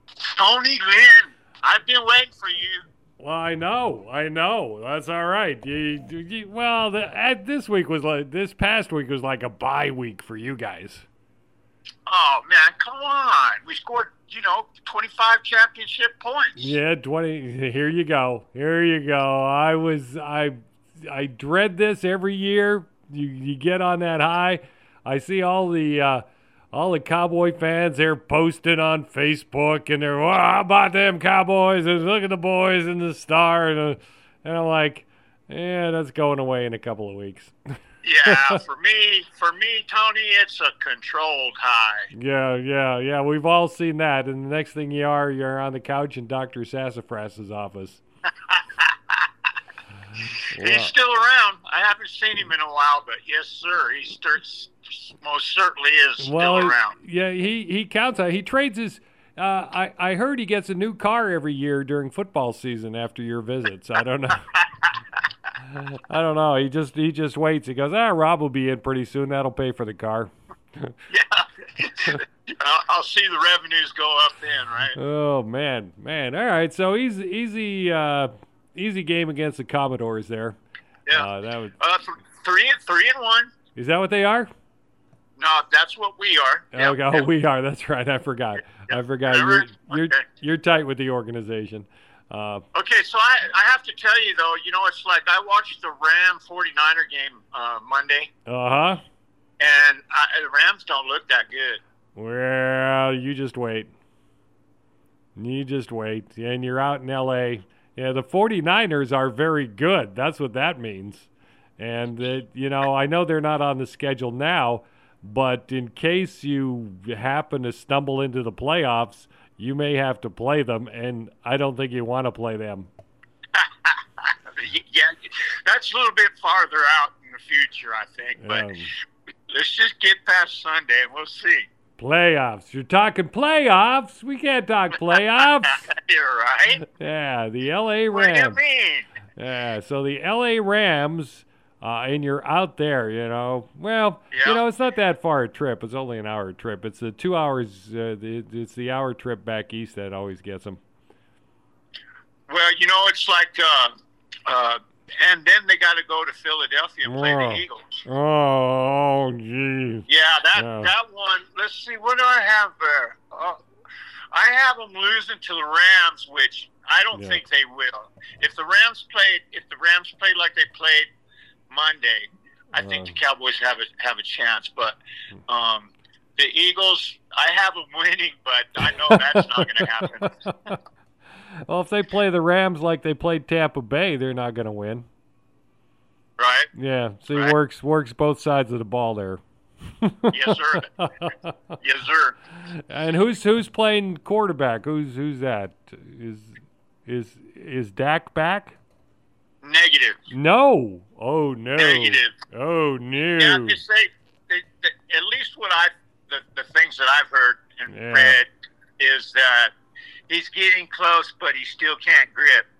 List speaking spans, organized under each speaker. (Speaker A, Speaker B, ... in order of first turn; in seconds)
Speaker A: 0.3-2.8, 12.1-16.8, 38.0-42.1, 48.5-49.2, 50.6-56.9, 64.5-64.8, 71.1-75.0, 81.8-83.5, 85.4-87.2, 88.7-90.2, 92.7-98.3, 99.6-101.8, 123.5-128.7, 129.5-131.7, 135.6-136.8, 138.1-139.1, 144.3-144.6, 152.5-153.9, 154.5-157.9, 160.1-163.6, 164.3-171.1, 171.7-180.3, 186.4-186.7, 190.3-190.9, 191.8-192.4, 199.6-200.2, 201.8-202.3, 203.4-208.5, 209.0-209.7, 210.3-212.7
Speaker B: 3.2-11.1, 16.6-37.5, 38.3-38.6, 42.1-48.0, 50.5-50.9, 56.2-64.5, 65.6-70.9, 74.9-80.6, 81.1-81.7, 83.7-84.5, 86.7-92.6, 98.5-99.0, 102.1-103.9, 105.3-122.9, 128.4-128.9, 132.0-135.9, 136.8-138.6, 139.4-150.8, 157.0-160.9, 167.1-167.4, 172.8-173.2, 178.8-180.8, 181.7-185.1, 186.7-189.4, 190.0-191.8, 192.7-198.8, 200.3-203.8, 207.9-208.4